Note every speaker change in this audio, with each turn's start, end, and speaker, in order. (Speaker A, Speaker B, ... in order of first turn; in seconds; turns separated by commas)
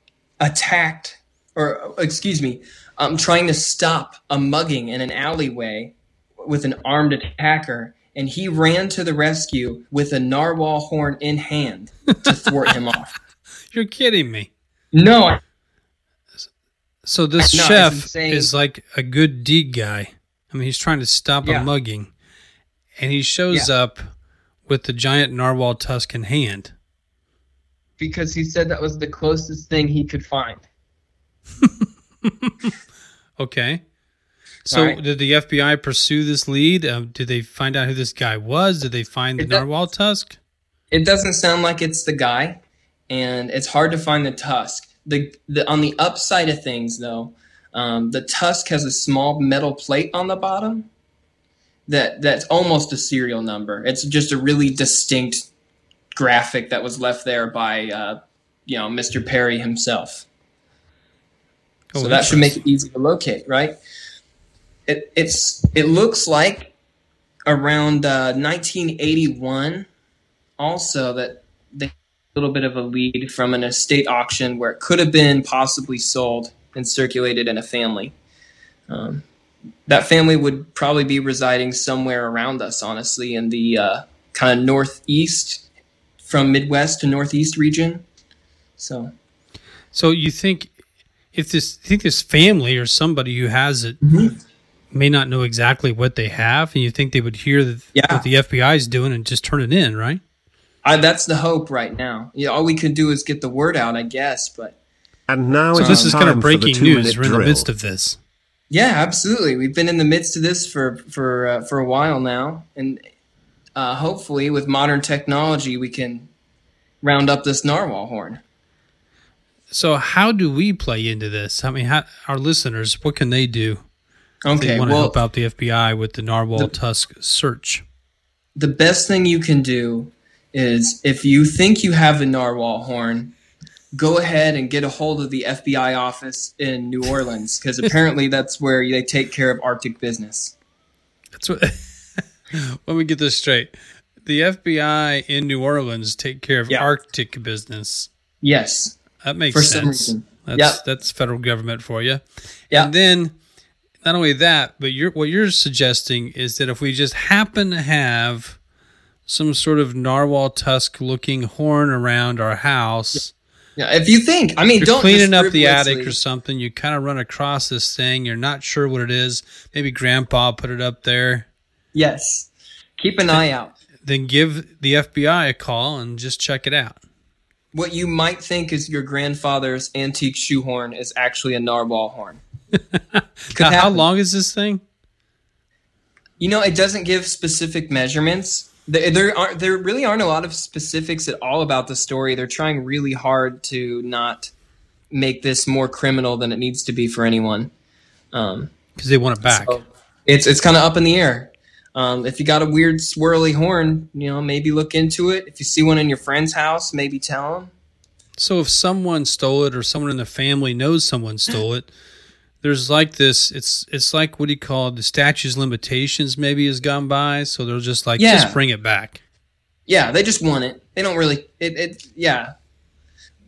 Speaker A: 0.4-13.1, Speaker B: 13.7-14.5, Speaker A: 14.9-15.4, Speaker B: 17.0-22.1, Speaker A: 17.4-18.5, Speaker A: 21.4-21.7, Speaker B: 23.0-24.1, Speaker B: 24.6-26.7, Speaker A: 28.0-30.6, Speaker B: 31.6-32.5, Speaker B: 33.4-33.8, Speaker B: 34.6-40.4, Speaker A: 34.7-35.0, Speaker A: 39.4-39.6, Speaker A: 40.9-50.9, Speaker A: 51.9-55.5, Speaker A: 56.1-60.3, Speaker B: 61.9-62.6, Speaker A: 62.0-63.8, Speaker A: 64.9-66.7, Speaker A: 67.5-69.9, Speaker A: 70.6-78.1, Speaker A: 78.9-79.2, Speaker A: 79.9-85.6, Speaker A: 86.2-88.0, Speaker A: 88.8-89.1, Speaker B: 89.9-90.7, Speaker B: 91.3-94.0, Speaker A: 94.0-94.3, Speaker B: 94.9-100.2, Speaker A: 97.9-98.2, Speaker A: 100.8-104.8, Speaker C: 105.3-107.7, Speaker A: 105.7-106.2, Speaker B: 105.8-108.2, Speaker A: 108.7-113.0, Speaker A: 113.7-116.3, Speaker A: 117.0-118.4, Speaker B: 119.7-123.8, Speaker A: 124.4-125.2, Speaker B: 124.6-127.8, Speaker A: 128.6-133.3, Speaker A: 133.9-140.5, Speaker B: 141.3-141.9, Speaker B: 142.5-143.7, Speaker B: 144.2-148.1, Speaker A: 148.4-149.0, Speaker B: 149.2-153.3, Speaker A: 149.5-150.8, Speaker B: 154.0-158.6, Speaker B: 159.2-163.3, Speaker A: 163.8-166.2, Speaker B: 164.8-171.5, Speaker A: 171.9-173.7, Speaker B: 174.0-177.0, Speaker A: 177.7-182.4, Speaker B: 183.1-184.8, Speaker A: 183.5-184.0, Speaker A: 186.4-194.5, Speaker A: 195.1-197.7, Speaker A: 198.3-198.7, Speaker B: 198.9-199.8, Speaker A: 199.5-207.7, Speaker B: 208.4-211.9, Speaker B: 212.6-219.2, Speaker A: 218.2-218.6, Speaker A: 219.9-222.5